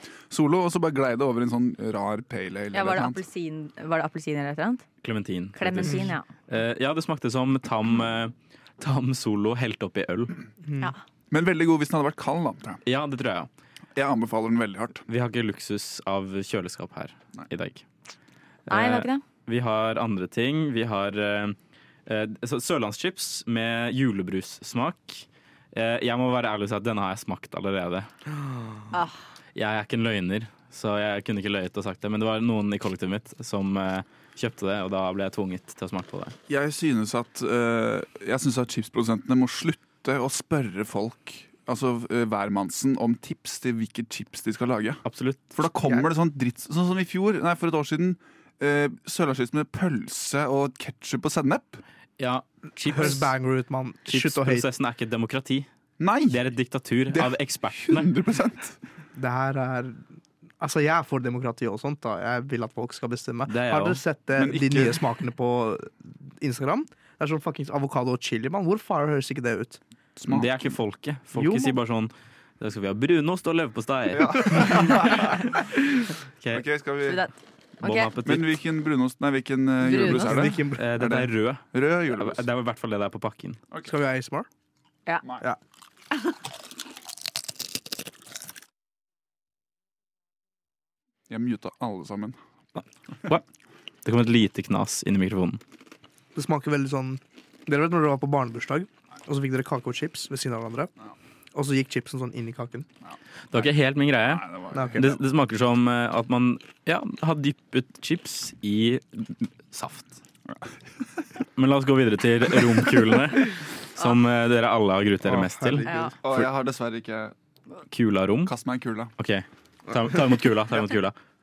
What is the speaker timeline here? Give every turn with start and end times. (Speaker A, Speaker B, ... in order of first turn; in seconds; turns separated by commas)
Speaker A: 0.3-3.2, Speaker B: 2.7-4.8, Speaker C: 5.0-10.4, Speaker B: 5.5-6.3, Speaker D: 5.8-6.1, Speaker D: 10.6-10.9, Speaker A: 11.3-12.8, Speaker C: 12.8-13.5, Speaker A: 13.9-15.0, Speaker C: 15.1-17.8, Speaker C: 18.7-28.1, Speaker B: 18.7-19.2, Speaker B: 28.9-29.2, Speaker C: 29.5-36.3, Speaker A: 36.5-45.0, Speaker C: 45.0-45.5, Speaker A: 45.5-51.8, Speaker C: 52.2-53.3, Speaker D: 52.9-54.7, Speaker C: 54.1-55.7, Speaker A: 56.0-56.4, Speaker C: 56.3-58.1, Speaker A: 57.1-58.8, Speaker D: 59.1-60.0, Speaker D: 60.6-69.8, Speaker C: 63.5-64.0, Speaker A: 64.3-65.0, Speaker A: 70.2-70.8, Speaker C: 70.3-75.5, Speaker D: 71.3-71.8, Speaker A: 74.1-75.5, Speaker A: 76.5-77.2, Speaker B: 77.0-78.1, Speaker C: 77.8-78.5, Speaker A: 78.2-82.4, Speaker B: 79.8-80.4, Speaker D: 80.0-80.8, Speaker C: 80.7-83.6, Speaker D: 83.8-84.5, Speaker A: 91.3-92.4, Speaker C: 92.8-93.4, Speaker C: 94.0-95.6, Speaker D: 96.3-100.9, Speaker D: 101.5-102.9, Speaker A: 103.0-103.7, Speaker C: 103.5-110.2, Speaker A: 104.2-105.2, Speaker D: 104.7-105.0, Speaker C: 111.6-115.8, Speaker D: 115.2-116.2, Speaker B: 115.8-116.2, Speaker A: 116.2-117.3, Speaker C: 117.9-118.5, Speaker A: 118.4-119.1, Speaker C: 119.2-121.2